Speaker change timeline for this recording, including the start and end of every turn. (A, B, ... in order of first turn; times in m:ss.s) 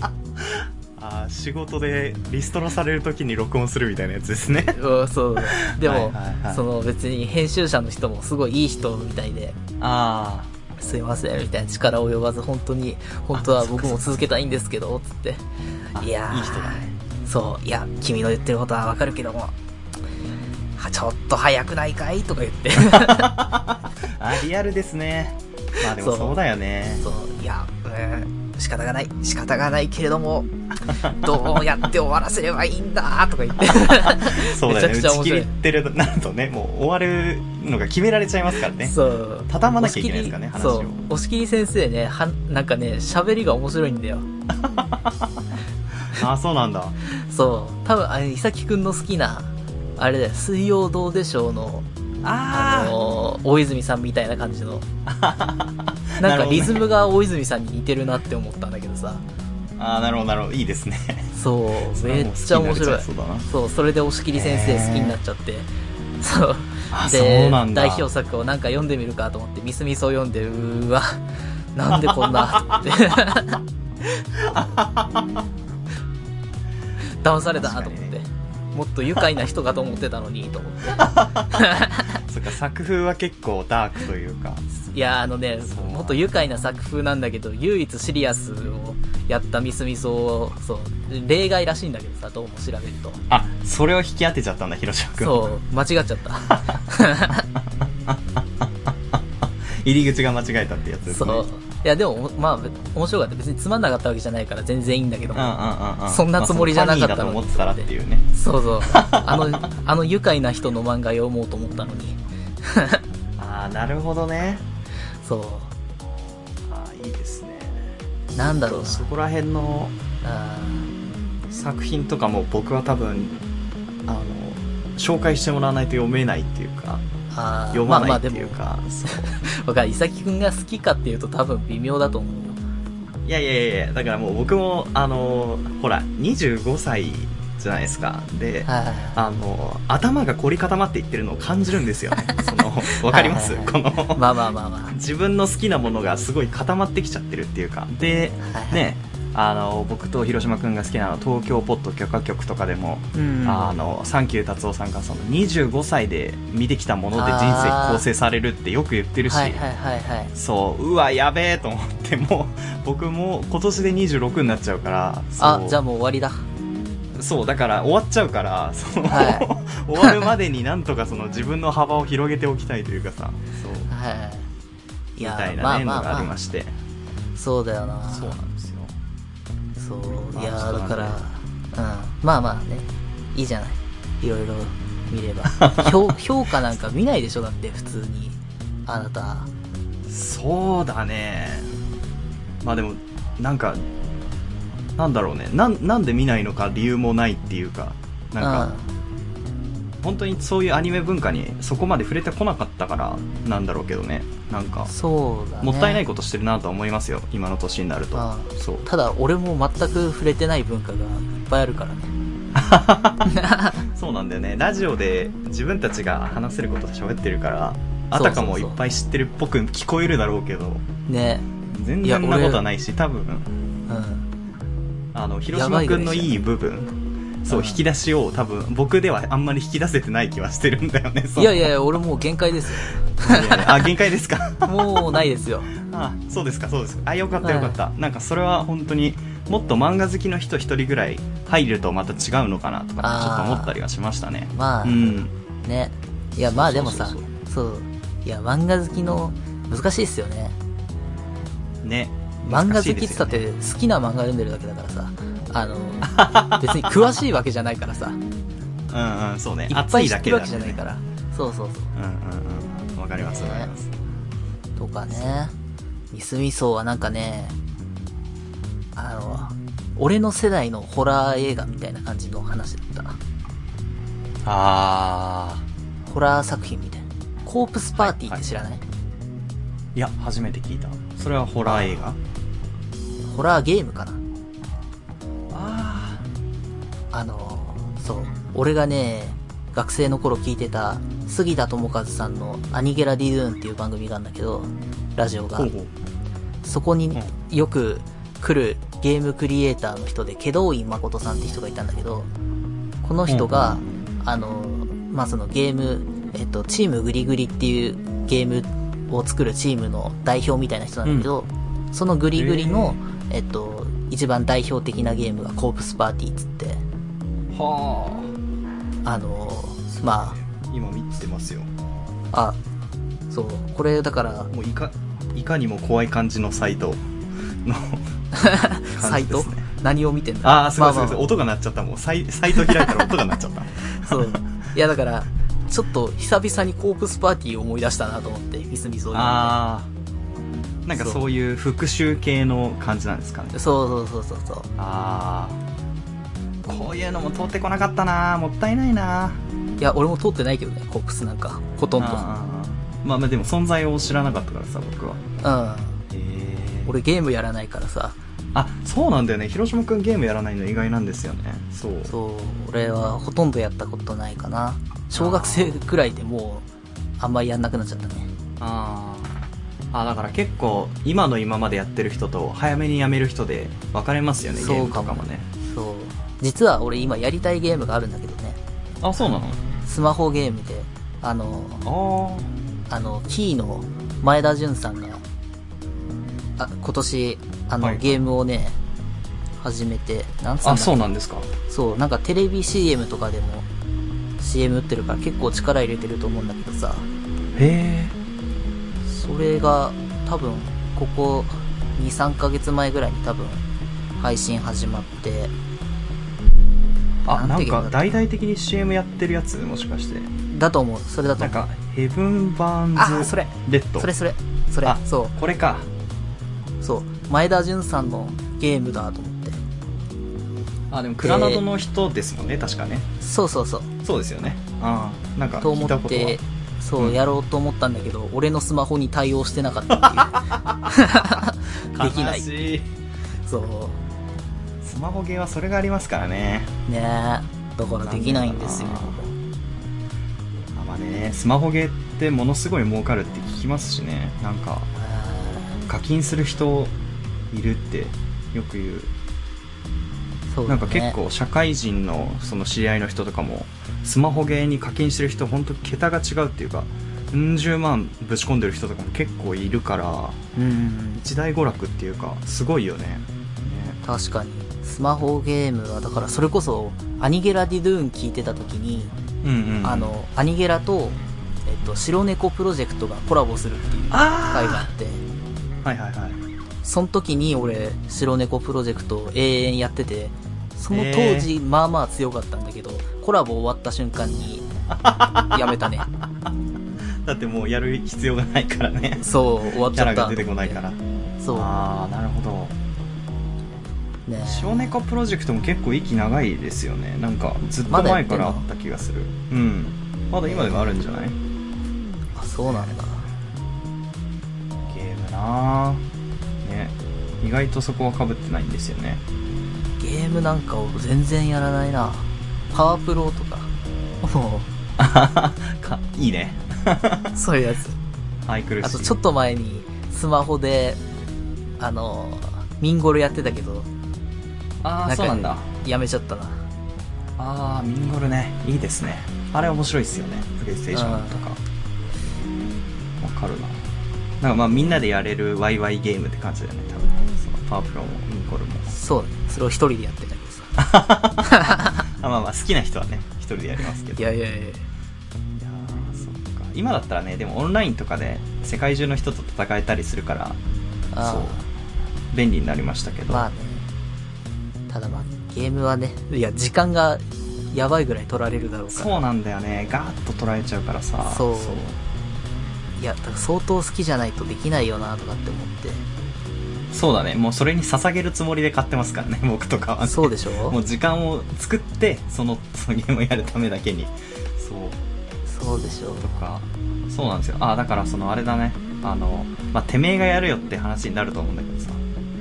0:00.4-0:04.8 A
0:04.7-0:09.6 B
0:05.4-0:06.6 A
0:09.8-0:10.5 A
0:10.8-0:15.4 B
0:13.3-0:14.1 A
0:15.9-0:16.9 A
0:16.0-0:19.5 B
0:20.8-0:23.4 B
0:22.8-0:27.0 A
0:26.0-0:26.4 B
0:27.0-0:35.5 B
0:33.7-0:39.0 A
0:38.8-0:44.3 B
0:39.5-0:41.0 A
0:44.6-0:45.4 A
0:46.0-0:47.0 A
0:47.1-0:51.9 B
0:52.2-0:53.0 A
0:52.5-0:54.8 B
0:55.0-0:56.9 A
0:56.2-0:59.2 B
0:59.8-1:01.3 A
1:01.3-1:05.7 B
1:01.9-1:03.5 A
1:04.3-1:05.2 A
1:06.2-1:11.2 B
1:06.9-1:08.1 A
1:11.7-1:13.6 B
1:12.1-1:12.8 A
1:14.4-1:15.4 A
1:17.2-1:22.2 B
1:17.5-1:18.2 A
1:21.0-1:24.6 A
1:24.9-1:33.2 B
1:25.6-1:26.2 A
1:33.3-1:35.5 A
1:35.2-1:37.5 B
1:36.5-1:36.8 A
1:39.7-1:41.4 A
1:41.1-1:53.0 B
1:45.3-1:48.3 A
1:48.8-1:49.6 A
1:53.4-1:54.6 A
1:55.2-1:55.7 B
1:56.6-1:57.9 A
1:58.3-1:59.1 B
1:58.6-1:59.9 A
2:00.2-2:00.9 B
2:01.5-2:03.4 A
2:04.0-2:07.0 A
2:07.3-2:12.6 B
2:07.7-2:09.3 A
2:13.2-2:24.3 A
2:18.6-2:19.2 B
2:22.3-2:25.0 B
2:24.9-2:39.6 A
2:28.4-2:28.8 B
2:33.1-2:33.7 B
2:37.2-2:38.0 B
2:39.3-2:40.3 B
2:40.3-2:45.8 A
2:45.4-2:46.4 B
2:47.1-2:53.9 A
2:49.0-2:50.3 B
2:53.9-2:54.5 B
2:55.2-2:56.3 B
2:55.2-2:56.7 A
2:57.3-2:58.4 B
2:58.1-2:59.0 A
2:59.8-3:09.5 B
3:00.3-3:01.2 A
3:05.6-3:06.1 A
3:10.1-3:11.7 A
3:12.6-3:13.8 A
3:15.0-3:18.7 A
3:18.4-3:18.9 B
3:20.0-3:24.9 A
3:24.9-3:26.0 B
3:25.6-3:28.8 A
3:28.1-3:32.1 B
3:32.5-3:40.8 A
3:33.3-3:33.8 B
3:38.1-3:38.8 B
3:41.1-3:41.5 B
3:41.7-3:43.5 A
3:42.0-3:42.6 B
3:43.9-3:44.3 B
3:45.1-3:51.7 A
3:45.5-3:46.4 B
3:47.5-3:47.8 B
3:51.4-3:53.9 B
3:53.2-3:55.2 A
3:54.6-3:55.7 B
3:55.7-4:05.3 A
3:57.4-3:57.8 B
4:03.0-4:03.7 B
4:04.5-4:10.6 B
4:06.4-4:07.3 A
4:11.8-4:13.4 A
4:12.4-4:18.2 B
4:16.0-4:16.9 A
4:18.9-4:20.9 A
4:19.7-4:21.9 B
4:21.9-4:23.9 A
4:23.2-4:23.7 B
4:24.8-4:25.5 B
4:26.1-4:27.5 B
4:29.0-4:33.2 B
4:34.4-4:35.6 A
4:36.1-4:38.8 B
4:38.0-4:38.4 A
4:39.9-4:42.2 A
4:41.6-4:42.0 B
4:43.3-4:44.2 B
4:45.5-4:46.2 A
4:47.1-4:55.7 B
4:55.6-4:55.9 A
4:56.6-5:02.3 B
5:03.0-5:16.8 B
5:03.3-5:04.0 A
5:11.0-5:11.3 A
5:12.3-5:13.0 A
5:17.5-5:18.3 A
5:19.0-5:20.4 B
5:19.9-5:21.7 A
5:22.3-5:22.6 B
5:23.3-5:24.5 B
5:24.5-5:27.0 A
5:27.6-5:28.1 A
5:28.3-5:31.3 B
5:28.9-5:29.6 A
5:30.4-5:34.4 A
5:33.8-5:39.6 B
5:39.1-5:39.9 A
5:40.8-5:43.5 A
5:41.0-5:41.2 B
5:43.5-5:44.7 B
5:44.8-5:45.6 A
5:46.6-5:49.4 A
5:49.8-5:52.2 B
5:52.0-5:55.2 A
5:55.4-5:56.0 B
5:56.1-5:56.9 A
5:56.8-5:58.2 B
5:58.5-6:02.1 A
6:02.1-6:06.7 B
6:05.1-6:05.8 A
6:07.2-6:08.3 B
6:08.6-6:09.3 A
6:09.9-6:15.5 A
6:14.6-6:18.6 B
6:19.0-6:19.6 A
6:19.8-6:21.9 B
6:21.8-6:22.5 A
6:22.9-6:25.2 B
6:26.6-6:28.8 B
6:27.8-6:28.2 A
6:29.6-6:31.0 B
6:30.6-6:31.5 A
6:31.7-6:33.7 B
6:34.4-6:37.1 B
6:37.5-6:38.1 A
6:39.0-6:43.6 B
6:44.2-6:45.5 B
6:47.2-6:50.3 A
6:47.3-6:48.0 B
6:50.5-6:51.6 B
6:51.4-6:54.1 A
6:53.0-6:55.3 B
6:54.8-6:55.9 A
6:56.8-6:59.6 B
7:00.9-7:03.1 A
7:01.2-7:01.6 B
7:03.2-7:03.9 B
7:04.0-7:06.4 A
7:05.6-7:12.4 B
7:10.0-7:11.4 A
7:11.9-7:12.9 A
7:13.5-7:14.0 B
7:14.8-7:16.7 A
7:16.9-7:19.3 B
7:18.0-7:19.3 A
7:20.7-7:24.9 A
7:25.0-7:25.8 B
7:25.9-7:26.9 A
7:27.5-7:29.1 A
7:30.5-7:31.2 B
7:30.7-7:40.4 A
7:40.6-7:41.2 B
7:41.2-7:44.0 A
7:44.0-7:49.1 B
7:49.4-7:50.1 A
7:49.8-7:55.2 B
7:54.1-7:54.9 A
7:55.8-7:56.4 A
7:56.8-8:04.7 B
8:00.9-8:01.5 A
8:05.0-8:06.0 A
8:05.5-8:06.1 B
8:07.2-8:09.2 A
8:09.2-8:10.8 B
8:09.9-8:11.0 A
8:11.4-8:11.8 B
8:11.5-8:12.8 A
8:14.3-8:14.9 B
8:14.4-8:21.4 A
8:17.9-8:18.6 B
8:20.5-8:20.7 B
8:22.4-8:23.3 B
8:24.9-8:26.0 A
8:26.6-8:29.2 A
8:30.0-8:33.7 B
8:34.2-8:34.7 B
8:35.0-8:37.4 A
8:37.3-8:38.0 B
8:38.4-8:39.1 A
8:38.8-8:41.0 B
8:41.8-8:43.9 B
8:44.8-8:45.7 A
8:45.0-8:46.6 B
8:47.4-8:51.6 A
8:50.9-8:51.4 B
8:53.2-8:53.8 A
8:54.4-8:58.9 A
8:58.9-9:00.8 B
9:00.8-9:04.2 A
9:01.4-9:02.0 B
9:04.2-9:04.8 B
9:05.6-9:10.6 A
9:11.1-9:11.6 B
9:11.2-9:11.6 A
9:12.3-9:13.4 A
9:13.3-9:13.9 B
9:14.9-9:19.2 B
9:18.9-9:22.0 A
9:21.2-9:21.8 B
9:23.0-9:26.0 B
9:26.9-9:35.0 A
9:30.0-9:30.8 B
9:35.4-9:36.3 B
9:36.2-9:42.0 A